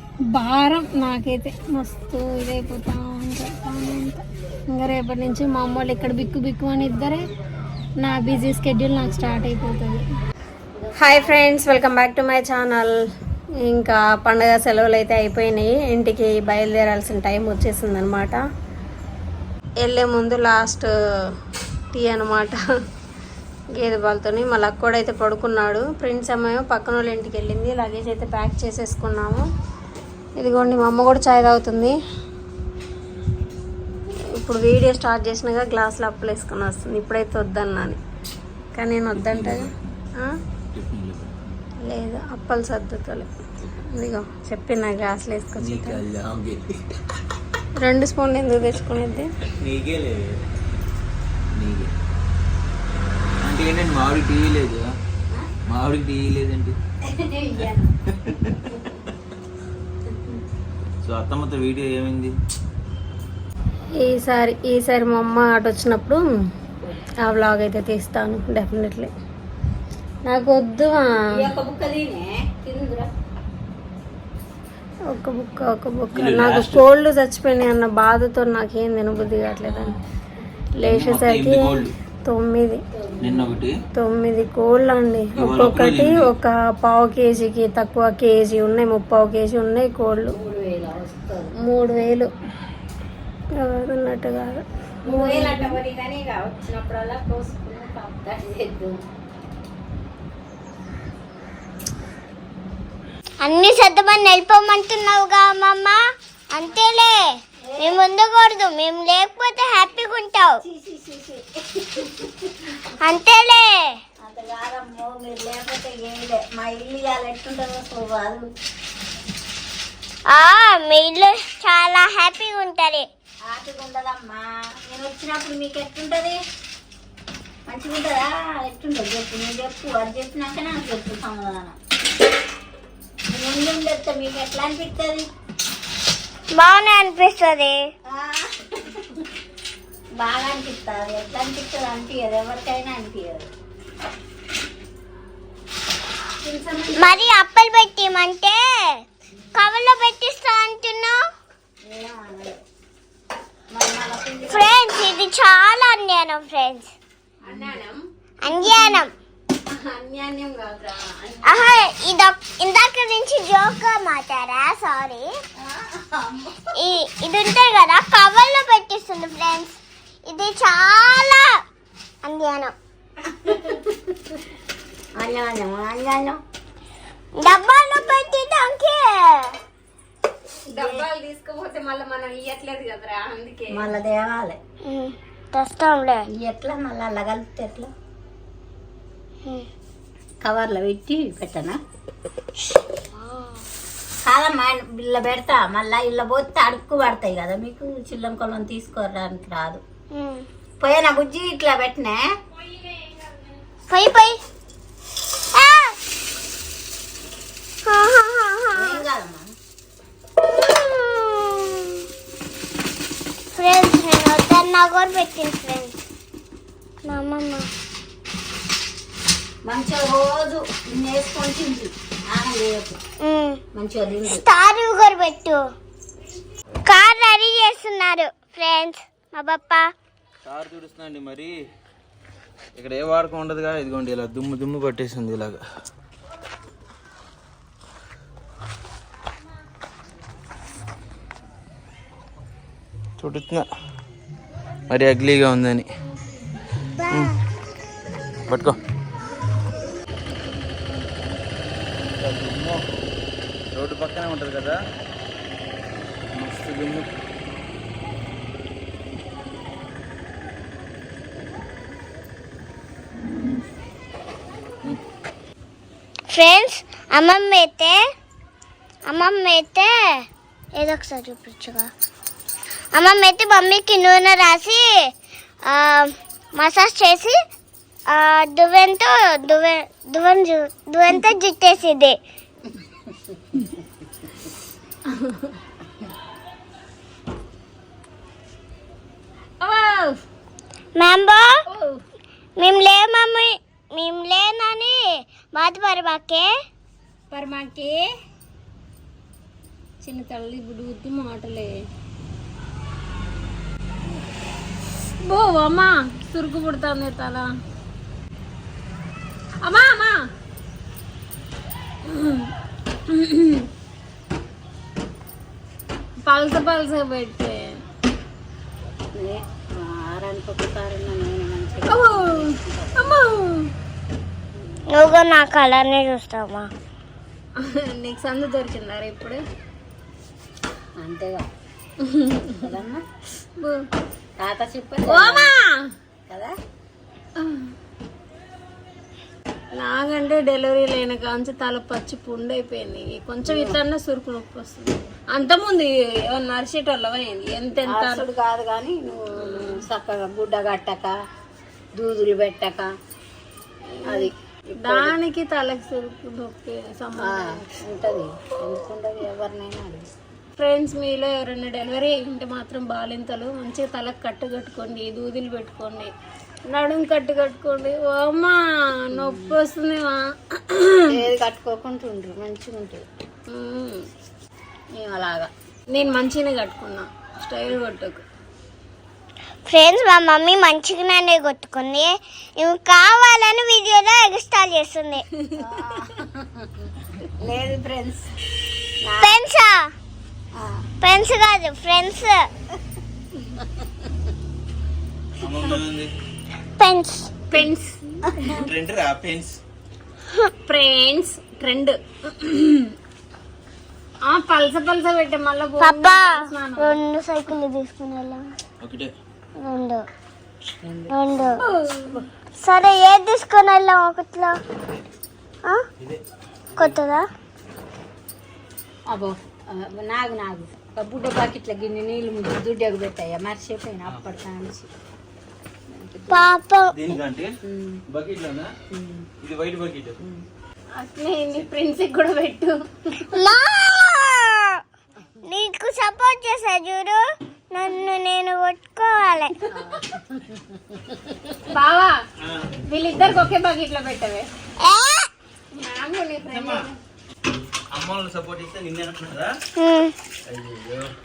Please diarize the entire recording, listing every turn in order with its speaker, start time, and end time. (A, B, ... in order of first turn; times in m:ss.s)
0:00.3-0:07.2 A
0:08.0-0:10.0 A
0:11.0-0:13.0 A
0:13.6-0:18.4 A
0:19.8-0:20.9 A
0:21.9-0:22.6 A
0:23.7-0:29.4 A
0:30.4-0:31.9 A
0:34.4-0:38.0 A
0:38.7-0:40.3 A
0:39.2-0:39.7 B
0:40.7-0:41.3 B
0:41.8-0:43.3 A
0:43.9-0:46.0 A
0:45.6-0:46.7 B
0:47.8-0:49.3 A
0:49.6-0:50.2 B
0:51.5-0:51.9 B
0:53.4-0:54.8 B
0:55.7-0:56.8 B
0:57.1-0:57.9 C
0:58.2-0:58.7 B
1:01.0-1:02.3 B
1:04.0-1:06.2 A
1:07.2-1:09.1 A
1:10.2-1:11.1 A
1:11.4-1:13.1 C
1:15.1-1:19.9 A
1:16.1-1:16.9 B
1:19.6-1:20.0 B
1:20.8-1:22.8 A
1:20.8-1:21.9 B
1:23.0-1:23.5 C
1:23.2-1:23.7 B
1:23.9-1:30.4 A
1:25.4-1:26.3 B
1:30.3-1:31.5 C
1:31.6-1:32.3 A
1:33.6-1:35.8 A
1:35.0-1:39.0 C
1:43.4-1:46.0 D
1:46.5-1:50.6 D
1:47.7-1:48.1 C
1:50.6-1:52.7 C
1:53.0-1:54.0 D
1:54.2-1:58.5 C
2:00.3-2:03.1 D
2:03.5-2:06.4 C
2:07.7-2:11.8 C
2:13.3-2:15.3 C
2:16.6-2:17.8 D
2:18.1-2:19.2 C
2:20.2-2:23.5 C
2:26.4-2:27.2 A
2:27.0-2:29.0 D
2:29.5-2:31.2 D
2:31.8-2:32.6 C
2:33.7-2:34.8 C
2:34.5-2:36.9 D
2:37.4-2:39.0 A
2:38.4-2:39.1 D
2:39.7-2:41.7 A
2:41.4-2:45.3 D
2:45.6-2:46.7 C
2:46.8-2:51.5 D
2:52.2-2:52.7 D
2:53.6-2:54.3 C
2:55.2-2:56.4 C
2:57.4-2:59.6 D
3:00.7-3:03.9 A
3:00.8-3:01.0 C
3:03.7-3:04.6 C
3:04.8-3:06.3 D
3:06.3-3:07.9 C
3:10.4-3:11.8 C
3:14.2-3:19.8 C
3:20.1-3:20.4 D
3:20.8-3:22.2 C
3:23.9-3:24.4 D
3:25.4-3:26.0 D
3:27.8-3:29.0 D
3:28.7-3:29.5 C
3:30.4-3:32.0 D
3:33.5-3:35.9 D
3:37.0-3:37.7 D
3:39.6-3:43.0 C
3:43.2-3:43.6 D
3:43.7-3:44.4 C
3:44.3-3:45.6 D
3:46.8-3:49.9 D
3:50.4-3:51.5 B
3:52.8-3:55.6 B
4:03.2-4:03.6 B
4:04.9-4:05.9 B
4:06.9-4:07.3 D
4:08.5-4:08.8 B
4:12.2-4:12.8 B
4:13.7-4:14.8 B
4:16.3-4:17.1 B
4:26.3-4:28.0 D
4:29.1-4:30.2 D
4:30.7-4:31.9 D
4:32.9-4:34.8 D
4:35.6-4:37.4 D
4:38.1-4:42.2 D
4:45.1-4:45.5 A
4:49.6-4:50.2 A
4:51.0-4:51.6 D
4:51.7-4:52.0 A
4:52.6-4:55.0 D
4:55.5-4:56.5 D
4:57.3-4:58.1 A
5:00.0-5:01.7 A
5:05.2-5:07.5 A
5:09.6-5:10.2 A
5:12.0-5:12.5 A
5:13.1-5:13.7 A
5:16.2-5:17.8 A
5:19.1-5:23.2 C
5:21.9-5:23.7 A
5:24.9-5:26.7 D
5:27.6-5:29.4 A
5:31.0-5:31.5 C
5:32.0-5:32.6 A
5:32.5-5:33.0 C
5:34.4-5:35.5 C
5:35.1-5:35.8 A
5:36.3-5:36.5 C
5:37.4-5:37.7 A
5:39.8-5:48.2 A
5:43.4-5:43.8 C
5:47.8-5:51.1 C
5:49.4-5:49.8 A
5:51.9-5:52.9 C
5:53.9-5:54.3 A
5:54.1-5:55.2 C
5:54.8-5:57.6 A
5:57.2-6:00.1 C
6:00.6-6:06.1 A
6:06.7-6:11.1 A
6:09.1-6:09.6 C
6:11.1-6:13.0 C
6:13.5-6:14.0 A
6:14.9-6:15.5 C
6:15.9-6:18.2 A
6:19.7-6:25.2 D
6:25.5-6:26.8 C
6:27.4-6:28.3 C
6:29.0-6:29.4 C
6:29.2-6:29.9 D
6:30.6-6:30.9 C
6:31.0-6:32.5 D
6:35.4-6:36.1 B
6:36.8-6:37.3 D
6:37.5-6:38.6 A
6:38.6-6:39.6 B
6:40.6-6:42.9 A
6:44.3-6:47.0 A
6:45.8-6:48.5 D
6:48.8-6:49.1 B
6:49.6-6:50.0 D
6:50.8-6:51.1 C
6:51.1-6:51.6 D
6:51.6-6:52.2 A
6:52.6-6:54.6 D
6:56.8-6:57.2 D
6:59.1-7:04.9 C
7:05.9-7:06.5 C
7:06.3-7:06.9 D
7:06.9-7:07.5 B
7:07.1-7:08.0 C
7:08.1-7:08.7 B
7:08.9-7:09.3 C
7:09.4-7:10.2 B
7:10.9-7:13.2 A
7:13.3-7:14.8 D
7:15.4-7:19.5 D
7:19.7-7:21.2 C
7:21.7-7:22.2 A
7:22.8-7:24.5 A
7:24.8-7:25.3 D
7:25.7-7:26.9 A
7:26.5-7:26.8 B
7:27.9-7:29.5 B
7:29.8-7:30.1 D
7:30.4-7:31.1 B